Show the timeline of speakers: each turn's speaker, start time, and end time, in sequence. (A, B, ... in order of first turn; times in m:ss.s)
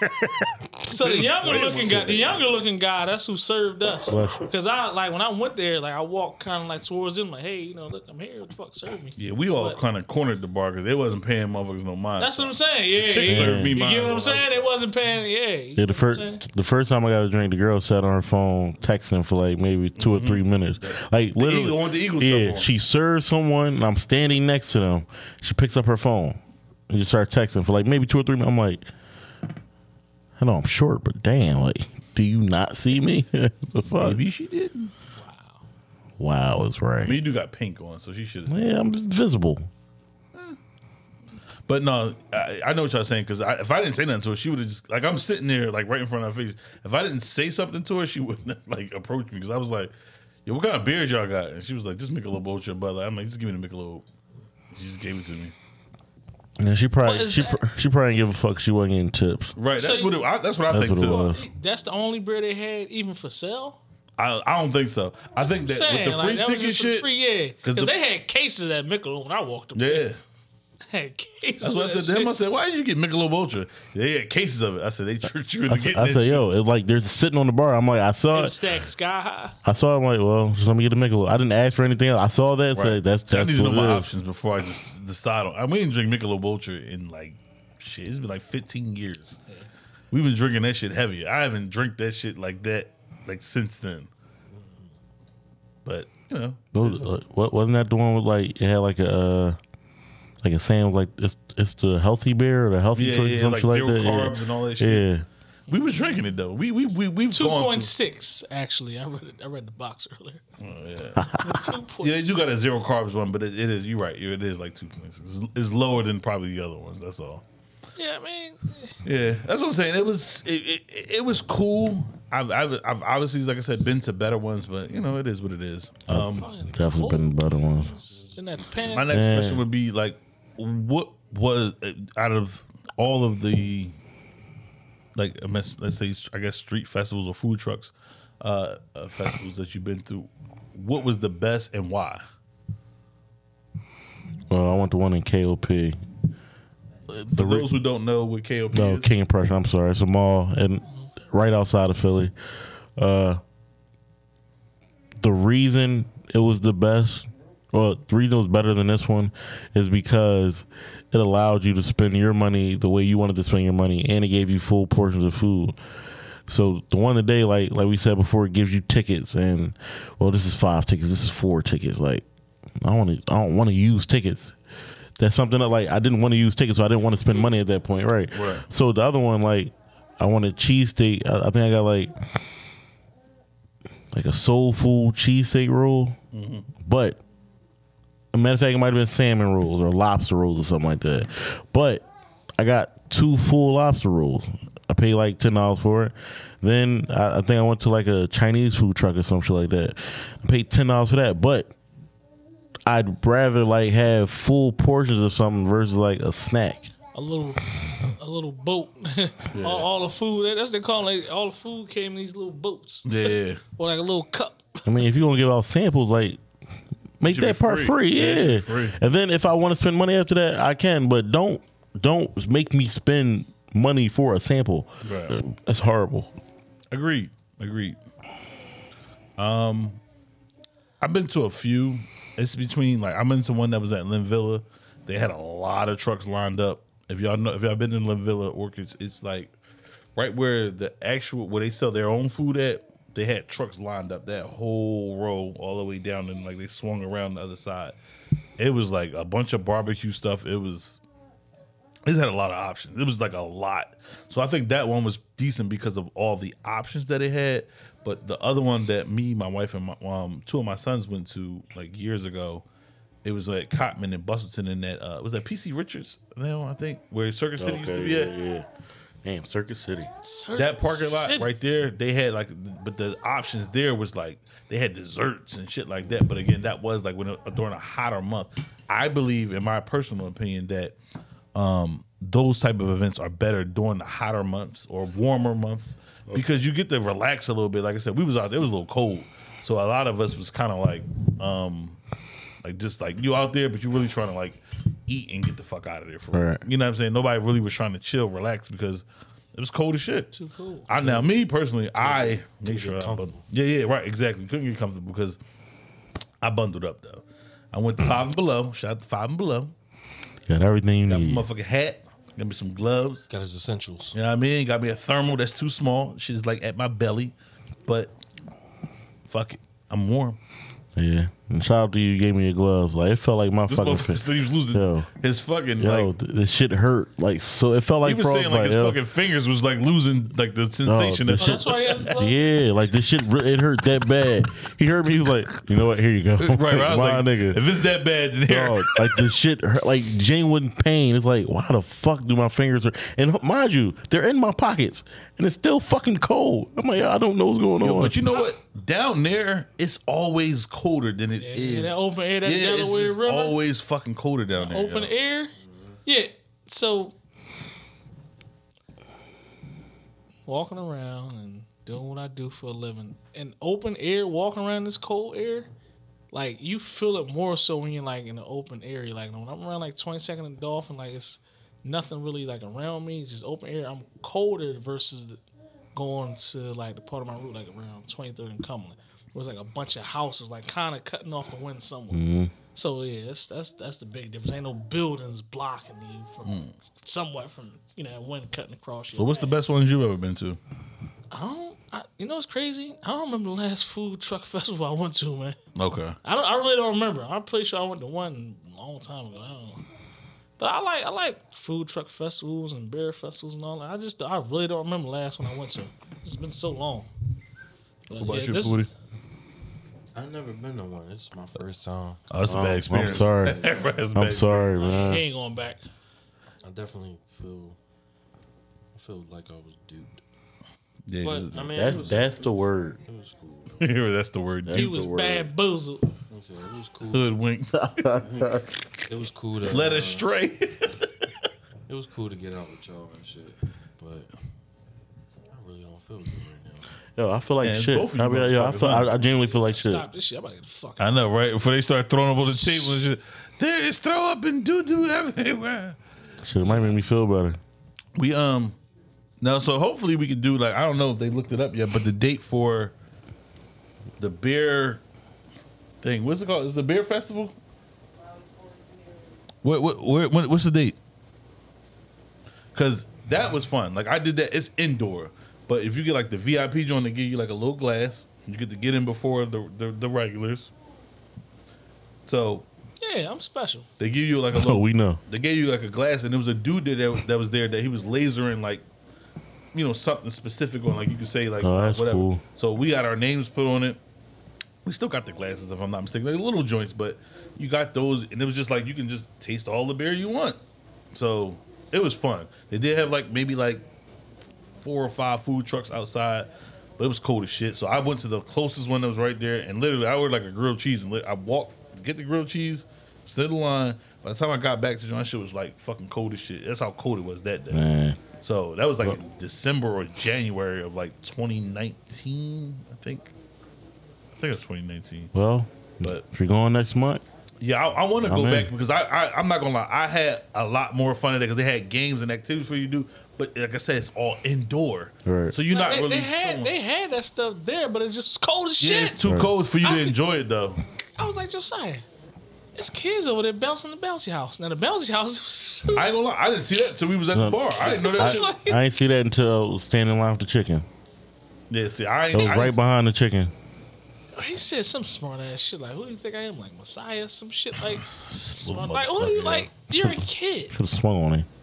0:00.2-0:00.7 A
0:00.8-0:09.8 B
0:00.9-0:02.4 C
0:04.1-0:04.5 A
0:09.2-0:14.6 C
0:12.2-0:16.4 B
0:13.3-0:13.8 A
0:15.8-0:28.8 A
0:20.0-0:22.7 C
0:30.4-0:34.2 A
0:33.9-0:34.9 C
0:35.2-0:35.6 B
0:36.2-0:37.2 A
0:37.0-0:38.6 C
0:38.5-0:39.7 A
0:41.7-0:49.9 C
0:50.4-0:54.0 C
0:54.7-0:55.5 C
0:56.6-0:59.6 A
0:57.0-0:57.6 B
0:59.6-1:01.3 C
0:59.8-1:00.3 B
1:00.7-1:01.4 A
1:01.0-1:03.8 B
1:04.2-1:07.1 C
1:05.4-1:10.1 B
1:07.6-1:07.9 C
1:09.8-1:10.2 C
1:10.9-1:12.3 B
1:11.6-1:16.4 C
1:15.7-1:18.6 A
1:18.3-1:19.6 B
1:19.6-1:24.1 A
1:22.7-1:29.4 C
1:30.1-1:34.1 C
1:34.5-1:34.9 D
1:35.8-1:37.1 C
1:36.7-1:39.6 A
1:40.4-1:45.2 A
1:42.9-1:45.1 C
1:45.7-1:47.9 C
1:45.7-1:46.1 B
1:47.3-1:50.4 B
1:50.6-1:51.3 C
1:51.4-1:52.4 B
1:52.0-1:57.4 C
1:58.0-1:59.0 B
1:59.0-2:06.5 C
2:06.1-2:08.0 A
2:06.1-2:09.1 B
2:08.0-2:09.0 D
2:08.9-2:13.9 C
2:09.1-2:09.6 A
2:15.2-2:22.2 C
2:24.5-2:26.0 A
2:27.1-2:27.7 A
2:27.2-2:29.1 C
2:28.7-2:32.3 A
2:33.0-2:33.4 A
2:35.2-2:45.8 A
2:46.5-2:52.2 A
2:52.8-2:54.5 A
2:55.2-3:02.1 A
2:58.3-2:58.6 C
3:04.1-3:06.2 A
3:06.3-3:06.7 C
3:06.8-3:07.2 A
3:08.3-3:12.0 A
3:12.6-3:21.7 A
3:22.8-3:26.9 A
3:27.1-3:34.9 B
3:29.5-3:29.9 C
3:33.0-3:33.6 C
3:34.8-3:36.4 A
3:37.2-3:46.3 A
3:37.2-3:39.0 C
3:45.0-3:45.4 C
3:46.9-3:48.0 C
3:49.4-3:50.0 C
3:51.0-3:59.5 C
4:00.2-4:07.9 C
4:08.6-4:11.0 C
4:12.0-4:22.6 C
4:23.2-4:28.3 C
4:27.6-4:28.7 A
4:29.2-4:30.1 A
4:30.2-4:31.5 B
4:30.6-4:40.9 C
4:41.5-4:52.0 C
4:52.6-5:00.3 C
4:56.3-4:56.6 A
5:00.3-5:00.9 B
5:00.9-5:05.4 C
5:00.9-5:01.3 D
5:02.0-5:03.4 D
5:06.4-5:09.7 C
5:10.5-5:11.5 A
5:11.1-5:13.3 C
5:13.3-5:14.2 D
5:14.1-5:17.3 C
5:17.9-5:18.1 C
5:19.3-5:20.4 C
5:21.0-5:25.1 A
5:23.7-5:26.1 C
5:25.8-5:29.0 A
5:28.0-5:32.1 C
5:30.8-5:37.6 A
5:31.4-5:32.3 B
5:36.4-5:39.2 C
5:38.5-5:48.2 A
5:47.8-5:55.1 C
5:51.4-5:53.6 B
5:54.6-5:55.5 B
5:55.6-5:56.0 D
5:56.0-5:57.1 B
6:00.4-6:05.7 B
6:06.3-6:15.4 B
6:15.9-6:29.7 B
6:22.1-6:22.5 A
6:26.4-6:26.7 C
6:29.1-6:30.6 C
6:31.3-6:35.6 B
6:35.8-6:36.2 C
6:36.2-6:39.8 B
6:40.6-6:47.1 B
6:48.1-6:48.9 B
6:48.2-6:48.9 C
6:50.1-6:52.2 D
6:52.3-6:54.7 C
6:52.4-6:53.6 A
6:53.2-6:53.8 D
6:54.1-6:55.2 A
6:54.7-6:55.8 B
6:56.6-6:57.8 D
6:58.9-7:00.2 D
7:01.1-7:02.1 C
7:01.2-7:03.9 D
7:01.7-7:03.0 A
7:03.8-7:04.9 C
7:04.6-7:05.5 A
7:04.7-7:06.1 B
7:06.3-7:07.3 D
7:07.1-7:08.1 C
7:07.7-7:08.7 A
7:08.2-7:10.3 D
7:09.6-7:11.3 C
7:11.9-7:14.3 D
7:15.5-7:16.9 D
7:17.2-7:20.0 A
7:17.6-7:19.1 C
7:19.4-7:21.2 B
7:21.0-7:26.0 C
7:22.4-7:23.0 B
7:26.4-7:27.6 A
7:28.2-7:28.8 C
7:29.4-7:32.9 C
7:34.2-7:35.0 C
7:36.0-7:37.5 C
7:39.6-7:41.0 C
7:42.7-7:50.7 C
7:52.3-7:52.6 C
7:53.0-7:53.9 B
7:54.0-7:58.8 C
7:54.5-7:55.2 A
7:59.7-8:04.0 C
8:01.6-8:02.4 A
8:04.8-8:10.6 C
8:11.1-8:13.9 C
8:14.8-8:27.9 C
8:27.7-8:28.2 A
8:28.4-8:33.3 C
8:34.4-8:35.3 C
8:35.3-8:37.2 A
8:37.6-8:46.7 C
8:38.2-8:38.7 A
8:45.2-8:45.6 A
8:45.7-8:49.2 B
8:48.8-8:50.8 C
8:49.2-8:49.5 A
8:49.8-8:50.2 B
8:51.2-8:52.0 B
8:52.7-8:56.1 B
8:55.9-8:58.5 C
8:57.3-9:00.8 A
8:57.8-8:58.9 B
9:01.7-9:02.8 C
9:02.3-9:03.5 A
9:04.3-9:10.8 B
9:08.0-9:09.7 C
9:10.0-9:11.5 A